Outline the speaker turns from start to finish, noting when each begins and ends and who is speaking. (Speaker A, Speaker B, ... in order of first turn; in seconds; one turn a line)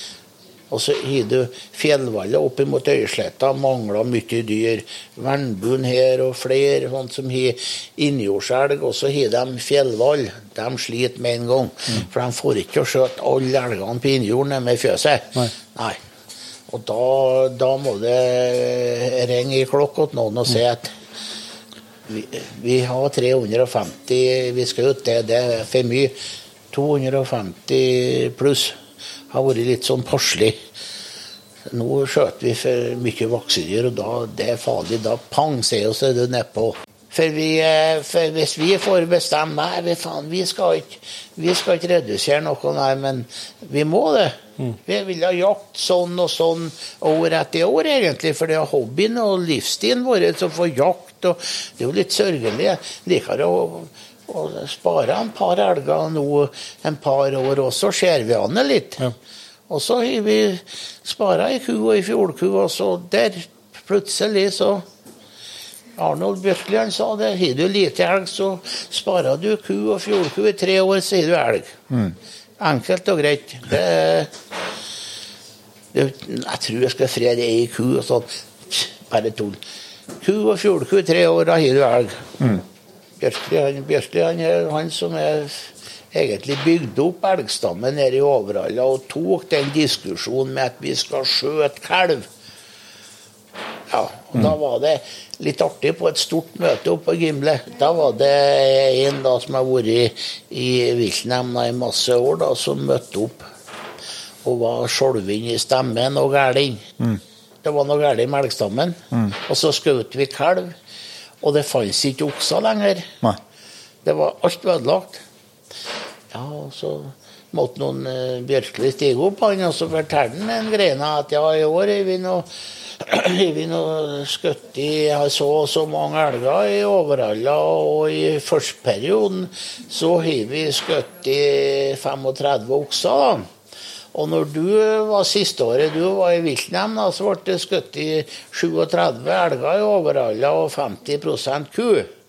Speaker A: 0.7-16.0
Speaker A: 16.7-20.9
Speaker A: 22.1-26.2
Speaker A: 26.7-28.8
Speaker A: 29.3-30.6
Speaker A: 31.7-59.0
Speaker A: 59.7-64.8
Speaker A: 66.0-72.0
Speaker A: 72.6-74.3
Speaker A: 75.9-79.6
Speaker A: 80.2-82.6
Speaker A: 83.2-92.3
Speaker A: 93.9-103.5
Speaker A: 104.4-106.9
Speaker A: 107.6-110.8
Speaker A: 111.4-113.2
Speaker A: 114.0-115.2
Speaker A: 116.3-133.5
Speaker A: 134.1-142.1